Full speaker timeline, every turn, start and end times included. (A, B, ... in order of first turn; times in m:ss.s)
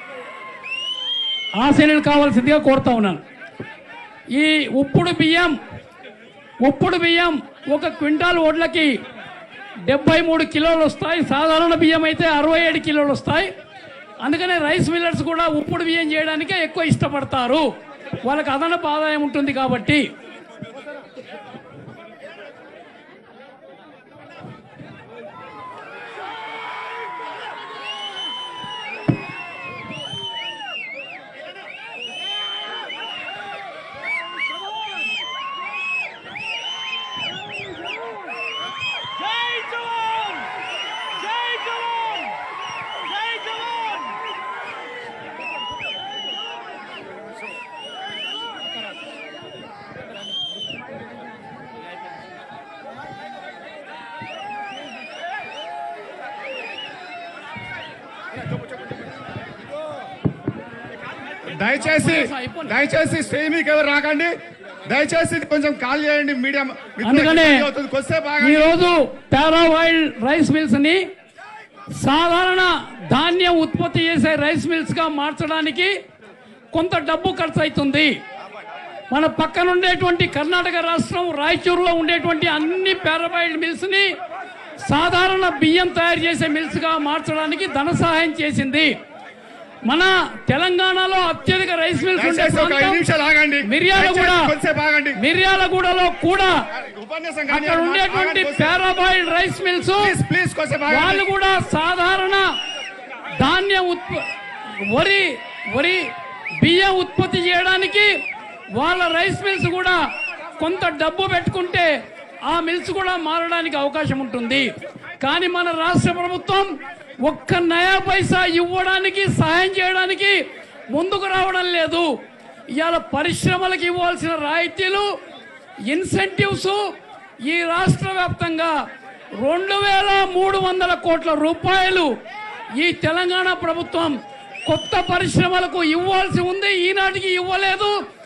0:01.6-0:03.2 A
0:04.3-0:05.6 A
0:06.6-0:08.9 A
0:09.9-0:13.5 A
0:14.2-0:17.7 A
0:18.2-0:20.1 A
1:01.5-1:04.3 B
1:01.8-1:02.8 A
1:04.9-1:08.7 B
1:07.0-1:07.7 A
1:08.4-1:11.0 A
1:11.9-1:15.9 A
1:16.7-1:18.2 A
1:19.1-1:24.1 A
1:24.8-1:28.9 A
1:29.9-1:33.0 A
1:32.2-1:35.2 B
1:33.6-1:34.5 A
1:35.2-1:36.6 A
1:36.8-1:38.8 B
1:37.5-1:40.1 A
1:40.0-1:41.2 B
1:40.9-1:42.5 A
1:43.4-1:44.2 A
1:44.9-1:46.0 A
1:46.6-1:48.1 A
1:48.8-1:50.0 A
1:50.6-1:51.9 A
1:52.5-1:54.7 A
1:55.2-1:56.7 A
1:57.2-2:00.4 A
2:00.9-2:02.1 A
2:02.8-2:05.1 A
2:05.9-2:06.8 A
2:07.4-2:08.7 A
2:09.4-2:12.1 A
2:12.8-2:14.2 A
2:14.7-2:18.0 A